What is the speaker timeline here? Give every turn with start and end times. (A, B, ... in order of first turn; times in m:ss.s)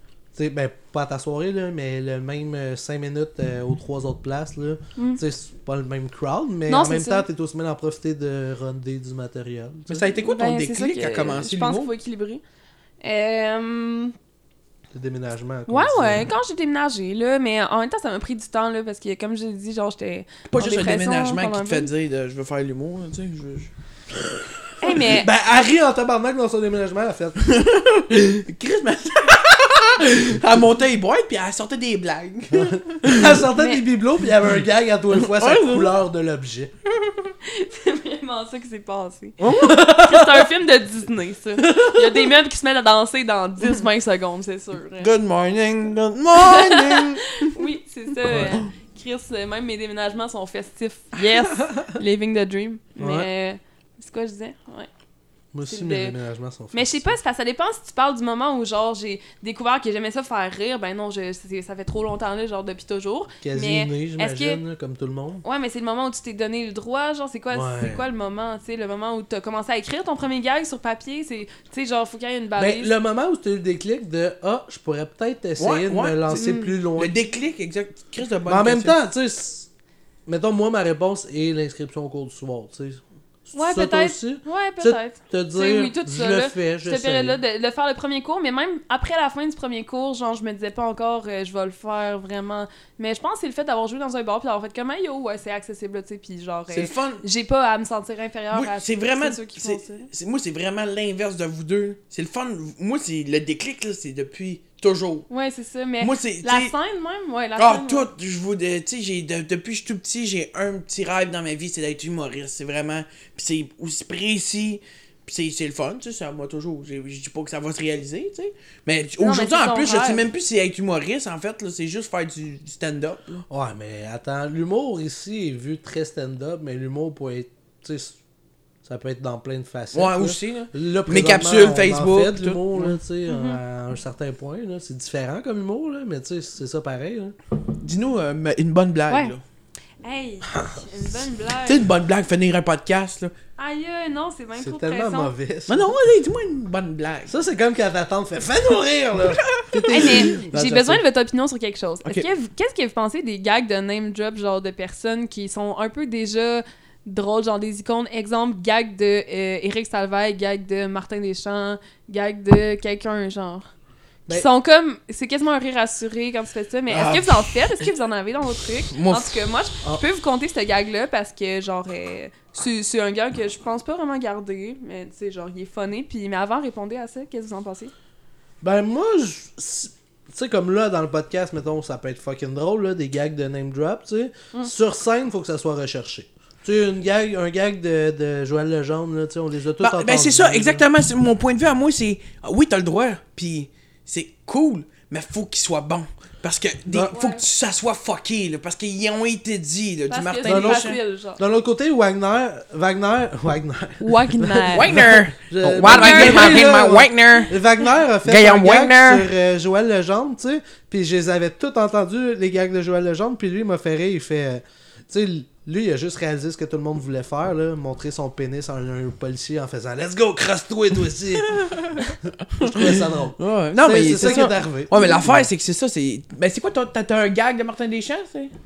0:00.3-0:10.1 A
0:05.0-0:05.2 B
0:06.7-0:07.2 B
0:09.9-0:11.9 C
0:10.2-0:12.4 B
0:13.0-0:14.1 B
0:14.9-0:16.3 A
0:15.7-0:21.9 B
0:20.5-0:23.7 C
0:24.8-0:25.3 B
0:25.0-0:27.5 A
0:27.4-0:33.4 C
0:32.5-0:36.7 A
0:33.5-0:33.8 B
0:35.2-0:36.0 C
0:37.4-0:45.1 B
0:39.4-0:39.7 C
0:39.6-0:40.5 A
0:41.6-0:42.3 A
0:45.0-0:47.6 C
0:46.4-0:54.9 B
0:48.2-0:48.6 A
0:53.0-0:53.3 A
0:55.5-0:57.2 A
0:55.6-0:56.1 B
0:56.7-1:04.6 B
1:03.4-1:05.4 A
1:05.4-1:12.9 B
1:07.5-1:08.0 A
1:12.6-1:17.2 A
1:15.6-1:18.9 C
1:16.3-1:16.7 B
1:18.4-1:19.7 A
1:20.2-1:23.0 A
1:23.5-1:27.4 A
1:23.5-1:40.1 B
1:36.7-1:37.2 C
1:38.5-1:45.2 C
1:45.3-1:48.1 B
1:46.0-1:46.7 C
1:47.6-2:03.4 C
1:59.2-2:00.2 B
2:03.5-2:08.2 A
2:08.8-2:17.3 A
2:09.9-2:13.0 C
2:13.3-2:13.6 B
2:17.8-2:19.4 C
2:20.0-2:21.8 B
2:21.6-2:23.3 C
2:23.6-2:25.3 B
2:24.6-2:25.9 A
2:25.7-2:27.3 C
2:27.3-2:31.0 A
2:29.3-2:30.2 C
2:29.9-2:43.7 B
2:44.3-2:57.9 B
2:46.9-2:47.9 C
2:48.9-2:49.4 C
2:58.6-3:10.8 A
3:09.8-3:21.0 C
3:16.9-3:17.2 A
3:17.1-3:17.4 B
3:20.1-3:21.4 B
3:20.4-3:41.6 A
3:24.0-3:24.9 B
3:24.7-3:27.5 C
3:25.8-3:26.7 B
3:28.2-3:29.2 C
3:41.4-3:48.5 C
3:42.6-3:45.5 A